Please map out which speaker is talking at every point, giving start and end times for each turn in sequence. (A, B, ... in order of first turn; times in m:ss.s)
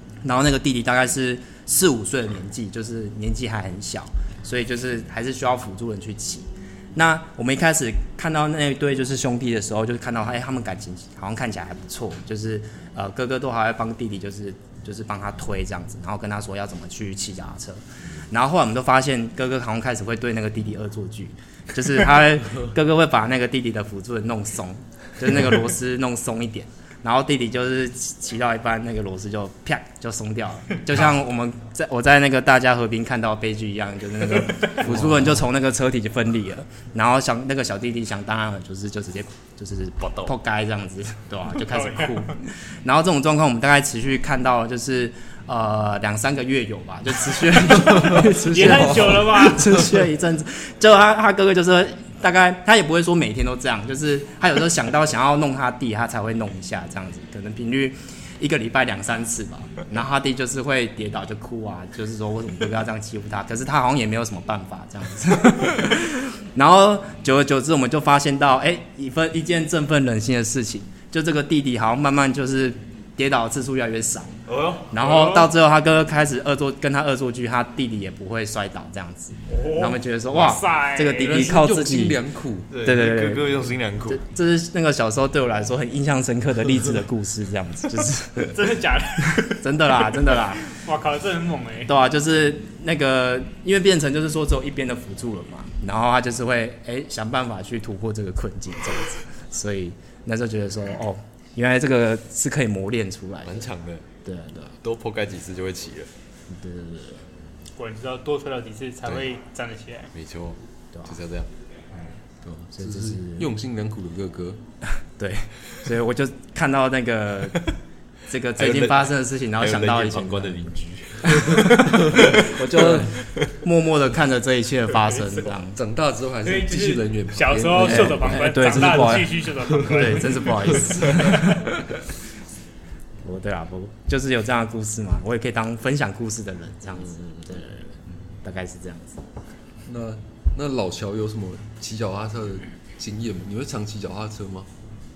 0:00.2-1:14.3 A
0:34.8-0:35.3 B
0:40.0-0:40.3 C
0:41.6-0:42.4 D
0:48.0-0:49.3 B
0:48.4-0:49.8 D
1:14.5-1:14.9 C
1:14.9-1:22.2 A
1:15.0-1:15.5 D
1:19.5-1:21.6 D
1:21.2-1:22.7 B
1:22.7-1:24.2 C
1:22.7-1:23.5 A
1:24.1-1:28.7 A
1:28.5-1:31.9 D
1:29.4-1:30.6 A
1:31.9-1:43.7 A
1:43.4-1:44.0 C
1:44.2-1:44.7 A
1:44.8-1:46.1 C
1:46.5-1:47.3 A
1:47.8-1:50.1 D
1:50.1-1:51.5 C
1:52.4-1:54.6 B
1:52.7-1:53.5 A
1:55.2-1:57.7 A
1:58.3-2:00.7 A
1:58.6-2:03.2 C
2:01.4-2:05.8 A
2:05.7-2:08.4 B
2:06.4-2:11.2 D
2:07.8-2:11.7 A
2:13.2-2:19.2 A
2:19.9-2:24.7 B